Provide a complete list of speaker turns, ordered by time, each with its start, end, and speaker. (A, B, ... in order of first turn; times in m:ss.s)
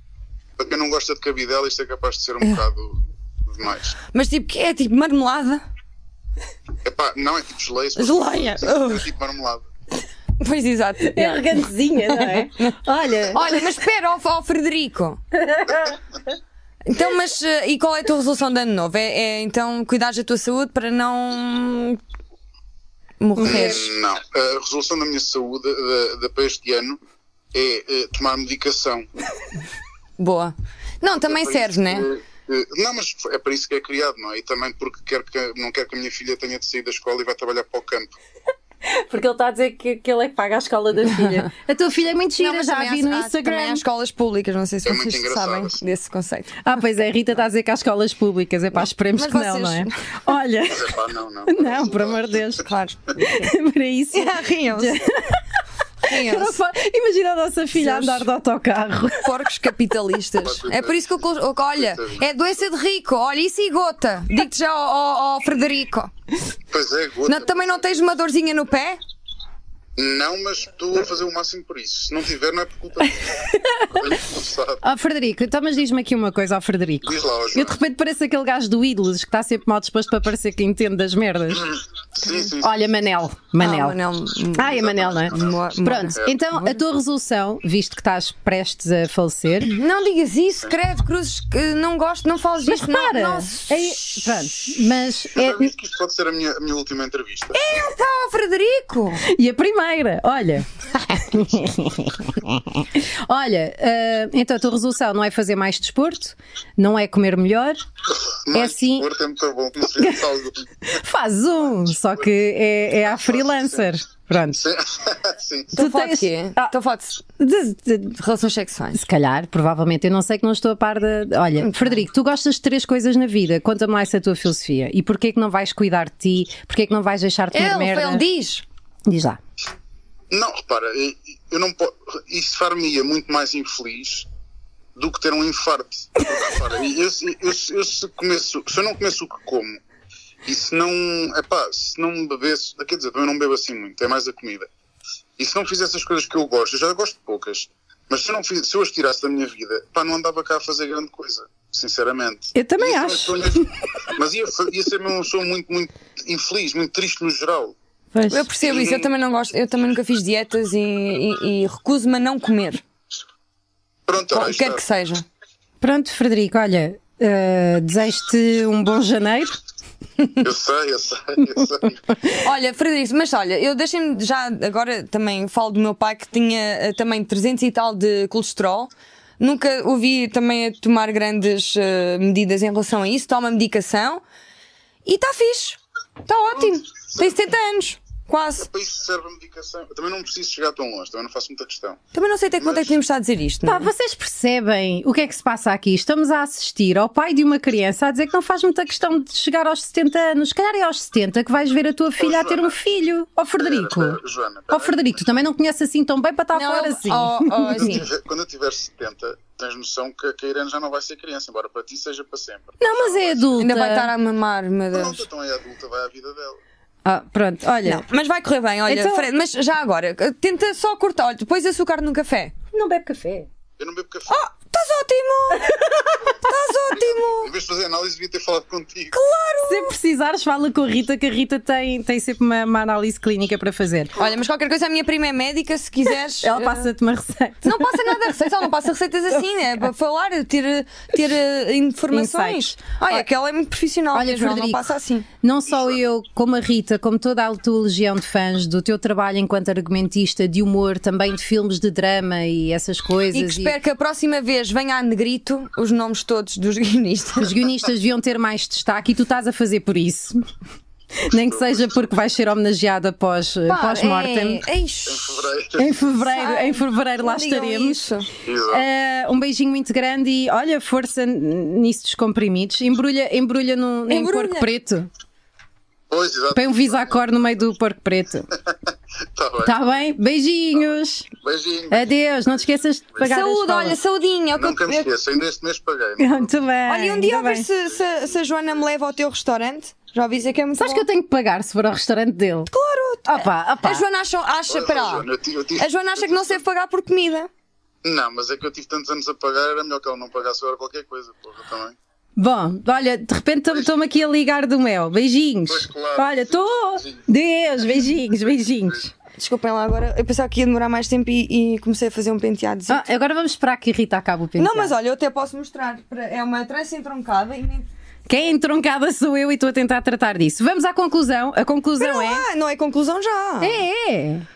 0:00.6-0:04.0 A
0:04.1-0:05.6 B
0:06.8-0:09.6 A
0:08.0-0:09.1 B
0:10.4-0:15.2 B
0:11.0-0:13.8 C
0:15.4-0:16.0 C
0:16.8-0:22.0 B
0:23.2-0:23.9 B
0:23.4-0:23.7 C
0:23.4-0:27.0 A
0:27.5-0:29.1 A
0:30.2-0:32.1 B
0:31.3-0:38.1 A
0:38.8-0:43.8 C
0:42.4-0:46.6 B
0:44.9-0:45.8 A
0:46.6-0:59.7 C
0:49.2-0:50.0 B
0:50.7-0:52.5 A
0:52.6-0:53.0 B
0:54.1-0:55.0 B
0:56.0-0:56.6 B
0:57.8-0:58.3 B
0:59.2-1:06.1 B
1:00.4-1:02.2 A
1:06.7-1:08.1 A
1:07.3-1:09.0 B
1:10.0-1:14.8 A
1:13.0-1:14.2 C
1:14.8-1:21.7 C
1:17.0-1:17.8 A
1:22.2-1:22.7 A
1:22.2-1:22.5 B
1:22.6-1:24.0 C
1:23.6-1:26.8 B
1:24.6-1:29.8 C
1:24.7-1:26.3 A
1:29.7-1:34.7 B
1:32.7-1:35.7 C
1:35.3-1:37.7 A
1:37.5-1:39.2 B
1:39.2-1:47.8 C
1:48.5-1:50.7 A
1:48.5-1:49.1 C
1:50.0-1:50.2 C
1:50.8-1:54.7 C
1:53.1-1:53.9 A
1:54.6-1:55.7 A
1:55.7-1:57.2 B
1:55.8-1:56.7 C
1:57.4-1:58.2 C
1:58.1-1:59.0 B
1:59.0-2:08.2 C
2:01.6-2:02.0 B
2:07.5-2:08.6 B
2:09.1-2:09.4 C
2:10.3-2:14.3 A
2:15.0-2:19.8 A
2:20.5-2:24.7 A
2:25.4-2:37.8 A
2:32.6-2:33.7 C
2:38.1-2:38.5 C
2:38.3-2:42.8 B
2:38.6-2:39.1 A
2:44.1-2:44.8 A
2:44.3-2:45.2 B
2:45.8-2:49.5 C
2:50.4-2:52.0 A
2:52.3-3:04.2 B
3:05.0-3:08.7 B
3:08.6-3:12.0 A
3:12.1-3:13.9 B
3:12.6-3:13.0 A
3:13.7-3:24.2 C
3:22.2-3:22.8 A
3:23.6-3:25.0 A
3:24.7-3:27.9 C
3:26.5-3:28.1 B
3:27.7-3:33.6 A
3:32.8-3:34.1 C
3:33.6-3:35.2 B
3:34.9-3:36.6 A
3:37.0-3:38.0 C
3:37.8-3:42.6 B
3:38.9-3:39.3 C
3:42.7-3:43.5 C
3:43.8-3:44.4 A
3:44.3-3:45.8 B
3:45.5-3:46.3 C
3:46.3-3:47.5 B
3:47.0-3:49.2 A
3:49.1-3:50.0 B
3:49.7-3:54.2 C
3:54.2-3:56.9 B
3:56.4-3:58.4 C
3:57.6-4:05.3 B
4:02.1-4:03.2 C
4:04.1-4:04.8 C
4:05.4-4:13.8 C
4:13.3-4:17.6 B
4:17.4-4:20.4 C
4:21.2-4:24.6 C
4:23.7-4:25.5 B
4:25.1-4:26.0 A
4:25.8-4:28.1 C
4:26.3-4:28.3 B
4:28.5-4:28.8 A
4:28.7-4:35.1 C
4:34.1-4:34.7 B
4:36.1-4:37.2 A
4:36.5-4:38.5 C
4:39.3-4:39.8 A
4:39.6-4:41.3 C
4:40.9-4:42.1 A
4:41.9-4:44.0 C
4:43.2-4:45.1 B
4:44.6-4:46.5 A
4:46.2-4:47.7 C
4:46.9-4:51.1 B
4:47.8-4:48.4 A
4:50.8-4:52.7 C
4:52.7-4:57.5 B
4:53.3-4:54.0 C
4:54.7-4:56.6 A
4:58.0-5:02.0 A
5:02.4-5:09.1 C
5:05.7-5:07.2 A
5:09.4-5:13.0 B
5:12.9-5:14.9 C
5:14.6-5:17.9 B
5:18.3-5:22.4 C
5:22.0-5:23.8 B
5:23.6-5:24.5 C